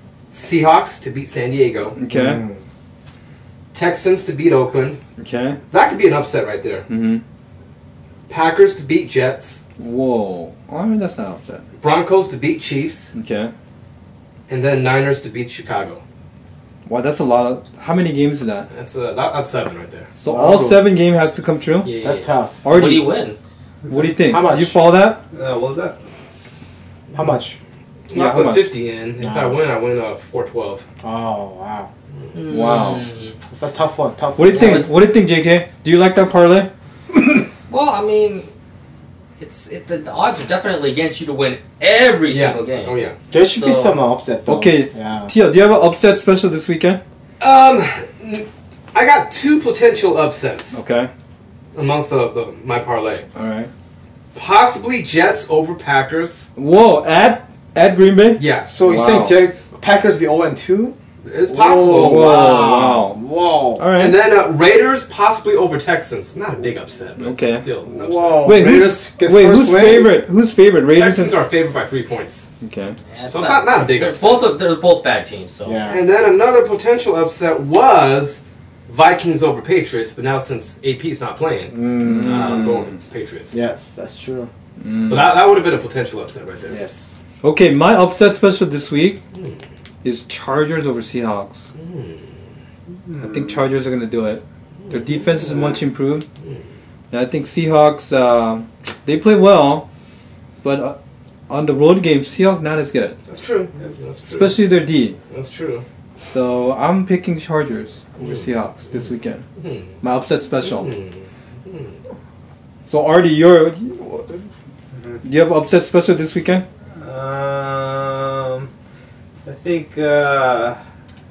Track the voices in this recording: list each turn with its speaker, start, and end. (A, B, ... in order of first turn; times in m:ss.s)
0:00.3-0:02.0 A
0:02.0-0:02.5 B
0:02.1-0:02.6 C
0:03.7-0:05.0 A
0:05.2-0:05.6 B
0:05.7-0:06.9 A
0:06.9-0:07.2 B
0:08.3-0:09.6 A
0:09.8-0:11.6 B
0:11.8-0:13.1 A
0:13.1-0:13.5 B
0:14.5-0:16.0 A
0:16.9-0:18.7 B
0:18.7-0:20.1 A
0:20.2-0:22.0 B
0:20.3-0:20.9 C
0:21.8-0:22.4 A
0:22.0-0:22.6 C
0:22.6-0:23.2 B
0:22.7-0:23.4 D
0:23.9-0:24.1 E
0:23.9-0:25.2 B
0:24.3-0:24.8 C
0:25.3-0:26.0 E
0:27.1-0:27.6 C
0:28.1-0:30.8 A
0:28.1-0:28.7 B
0:29.2-0:29.6 C
0:31.0-0:31.9 C
0:32.3-0:33.4 D
0:32.4-0:33.1 B
0:33.5-0:34.9 C
0:34.4-0:36.7 B
0:34.5-0:34.9 D
0:37.7-0:38.5 D
0:39.4-0:44.0 D
0:42.3-0:43.2 A
0:43.3-0:45.3 C
0:44.5-0:47.0 B
0:47.4-0:50.8 A
0:50.7-0:51.1 B
0:51.7-0:53.3 A
0:53.4-0:53.7 B
0:54.3-0:56.5 A
0:56.6-0:59.4 B
0:58.4-0:58.7 A
0:58.6-1:03.9 C
1:01.2-1:02.6 A
1:01.8-1:03.2 B
1:03.8-1:04.2 B
1:03.9-1:08.6 A
1:07.2-1:07.7 B
1:07.9-1:10.2 C
1:08.4-1:11.4 B
1:10.9-1:12.5 A
1:12.6-1:13.0 B
1:13.1-1:15.8 D
1:13.3-1:14.6 A
1:15.6-1:16.0 C
1:15.9-1:23.6 A
1:21.7-1:22.6 C
1:22.0-1:23.0 B
1:23.5-1:24.5 C
1:24.8-1:25.4 B
1:25.1-1:26.8 A
1:26.7-1:27.1 C
1:27.4-1:29.2 B
1:29.3-1:29.6 A
1:30.0-1:31.7 B
1:31.8-1:32.3 A
1:33.1-1:33.6 E
1:33.2-1:36.3 B
1:34.9-1:35.8 A
1:37.1-1:39.9 B
1:40.6-1:41.0 B
1:41.5-1:43.2 B
1:43.3-1:45.8 A
1:44.3-1:45.2 B
1:46.2-1:49.4 B
1:48.2-1:48.5 A
1:49.6-1:50.0 A
1:50.0-1:50.9 B
1:50.6-1:52.0 A
1:52.8-1:54.4 B
1:55.2-1:56.6 B
1:57.0-1:58.7 E
1:59.4-2:00.8 E